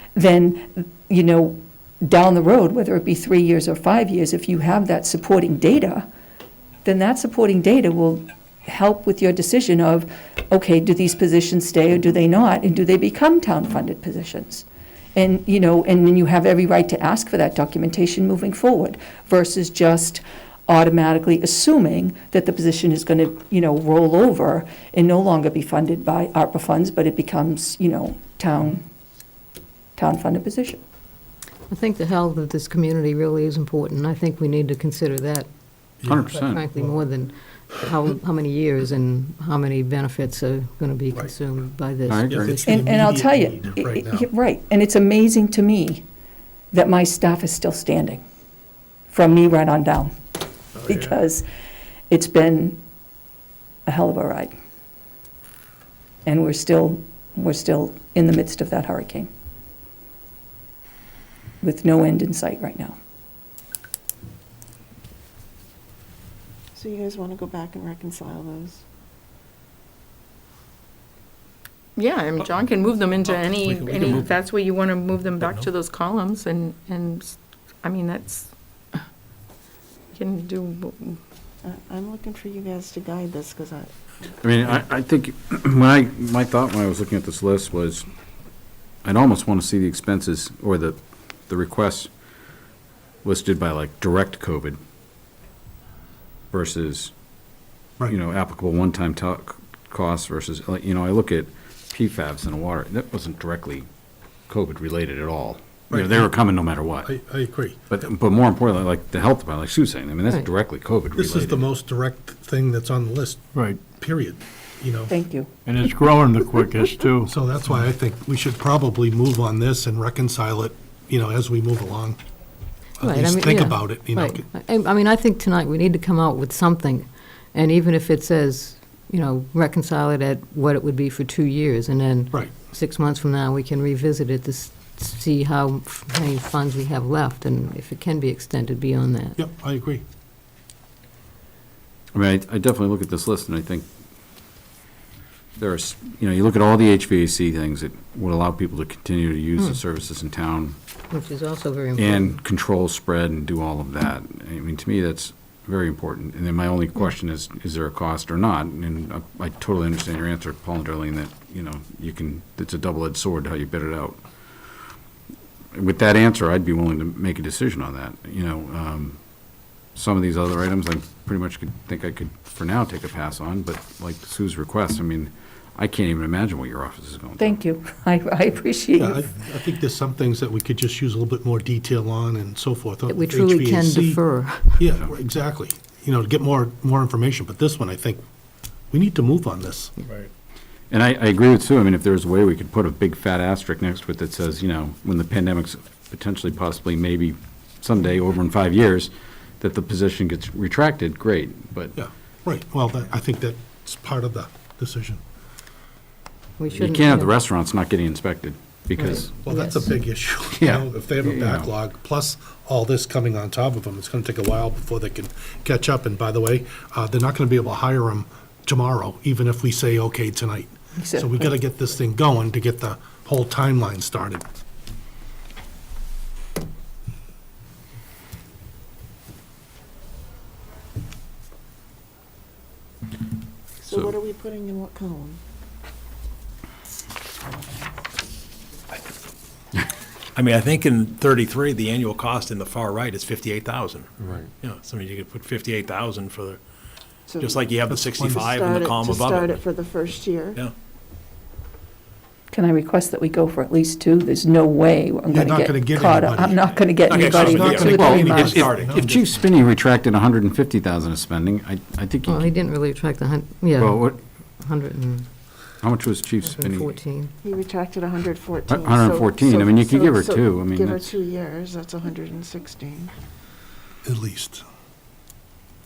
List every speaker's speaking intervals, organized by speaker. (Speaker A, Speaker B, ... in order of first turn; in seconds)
Speaker A: 0.1-6.1, 6.8-28.9, 29.9-30.8, 42.6-46.0, 46.7-48.2, 49.1-50.1, 50.8-51.5, 52.1-52.8, 53.9-54.5, 56.2-59.3, 61.6-63.0, 115.1-115.5, 177.4-179.3, 220.9-221.5, 252.5-258.6
Speaker B: 31.7-35.5, 36.1-42.7, 123.0-139.4, 151.1-152.4, 183.1-184.9, 206.6-207.3, 209.0-210.0, 262.2-265.2, 266.4-267.3
Speaker C: 36.0-36.8, 42.3-44.3, 105.9-106.3, 107.0-107.9, 111.1-115.2, 117.2-122.2, 123.0-124.5, 139.4-140.0, 179.0-184.2, 184.8-188.2, 188.9-189.9, 201.9-205.2, 209.4-224.4, 247.9-248.5, 255.3-259.3, 274.0-274.6
Speaker D: 36.1-36.6, 42.1-42.4, 84.4-88.0, 89.0-91.0, 91.5-92.1, 93.2-94.8, 96.5-97.1, 98.1-103.8, 104.5-107.1, 107.9-111.6, 142.1-143.8, 145.6-150.8, 151.9-164.2, 165.7-169.2, 169.9-177.6, 190.9-201.9, 206.7-209.3, 210.5-211.7, 257.8-262.5, 263.8-264.2, 265.8-266.9, 268.7-271.1
Speaker E: 66.7-68.8, 81.6-83.9, 233.8-235.4, 247.3-250.6, 267.4-273.1
Speaker F: 72.0-79.0, 80.1-81.2
Speaker G: 73.2-74.3, 75.4-75.7, 240.3-246.6, 247.4-249.6, 257.1-259.0
Speaker H: 113.5-113.8, 115.6-117.3